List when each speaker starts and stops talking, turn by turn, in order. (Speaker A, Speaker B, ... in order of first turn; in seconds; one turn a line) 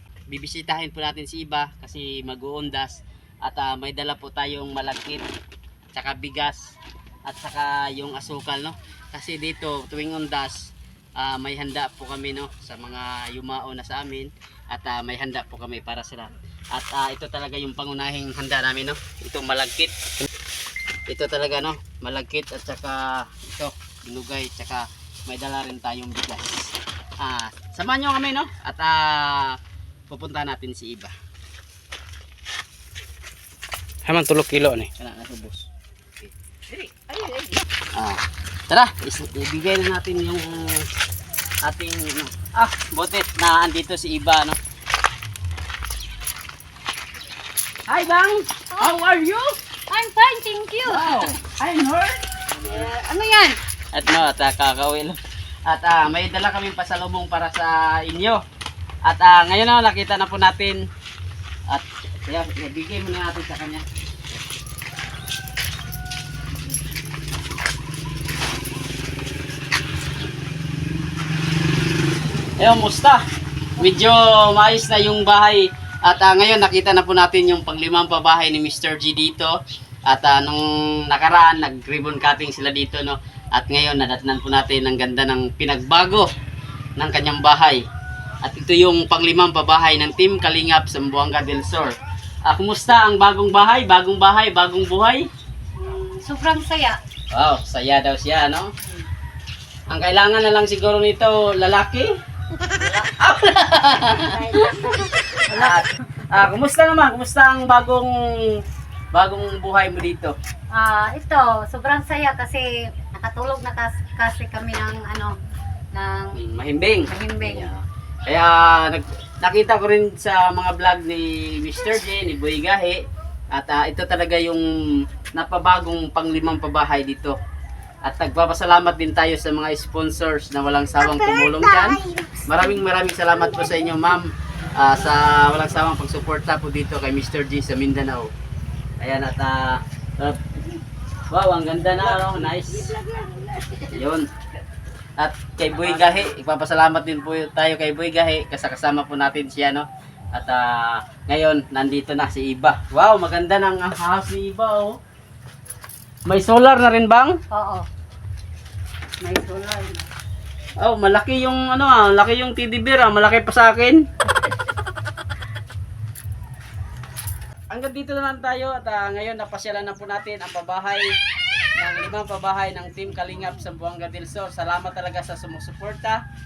Speaker A: 0.3-5.2
Speaker A: 6.0-6.8
Speaker A: 7.3-20.0
Speaker A: 21.1-31.1
Speaker A: 34.1-35.7
Speaker A: 36.2-40.9
Speaker A: 41.6-44.6
Speaker A: 47.9-49.6
Speaker B: 49.9-51.3
Speaker A: 50.9-52.7
Speaker B: 52.6-53.6
Speaker A: 53.9-58.4
Speaker A: 59.0-60.8
Speaker A: 61.7-63.8
Speaker A: 72.6-73.2
Speaker A: 73.8-79.6
Speaker A: 80.1-86.3
Speaker A: 87.0-87.8
Speaker A: 88.4-95.3
Speaker B: 95.8-97.0
Speaker A: 97.3-98.7
Speaker A: 99.9-102.1
Speaker B: 102.7-103.0
Speaker A: 103.0-108.5
Speaker B: 104.5-105.8
Speaker A: 109.1-110.3
Speaker B: 110.7-115.4
Speaker B: 115.9-116.4
Speaker A: 116.3-124.7
Speaker B: 117.1-117.7
Speaker A: 125.3-127.4
Speaker A: 128.0-138.3
Speaker A: 139.0-140.8
Speaker A: 141.3-143.0
Speaker A: 143.7-144.3
Speaker A: 145.2-155.0
Speaker A: 156.3-157.4
Speaker B: 157.5-157.9
Speaker B: 159.2-160.1
Speaker A: 160.8-164.0
Speaker A: 167.7-171.1
Speaker A: 171.8-176.2